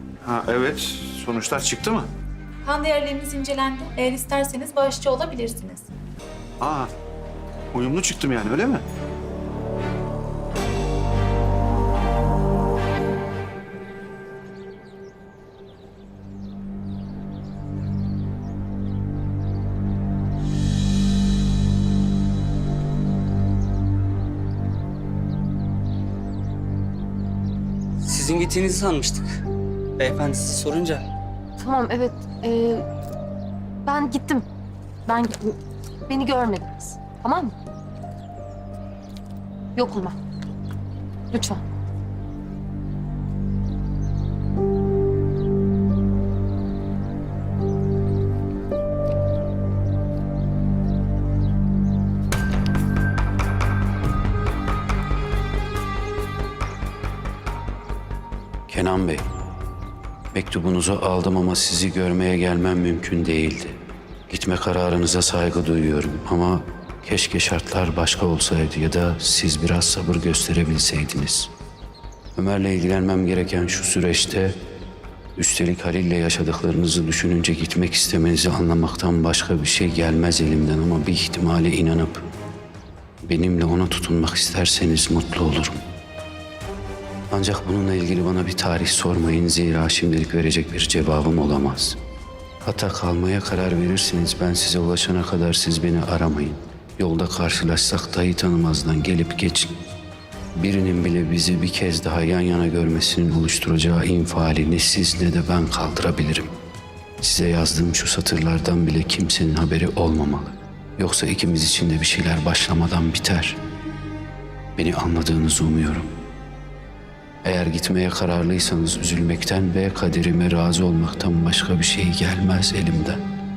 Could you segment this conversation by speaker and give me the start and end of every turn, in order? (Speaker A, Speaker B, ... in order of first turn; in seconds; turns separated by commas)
Speaker A: 0.2-2.1, Speaker B: 2.6-5.9, Speaker A: 6.6-6.9, Speaker A: 7.7-8.8, Speaker C: 28.0-29.4, Speaker C: 30.0-31.1, Speaker D: 31.6-32.9, Speaker D: 33.9-34.5, Speaker D: 35.1-35.6, Speaker D: 36.1-37.5, Speaker D: 39.8-40.2, Speaker D: 41.3-41.6, Speaker E: 58.7-59.2, Speaker E: 60.3-63.8, Speaker E: 64.3-71.5, Speaker E: 72.4-74.5, Speaker E: 75.4-82.3, Speaker E: 83.2-85.8, Speaker E: 87.3-92.0, Speaker E: 92.6-99.7, Speaker E: 100.6-106.5, Speaker E: 107.2-113.6, Speaker E: 114.8-116.1, Speaker E: 117.4-123.2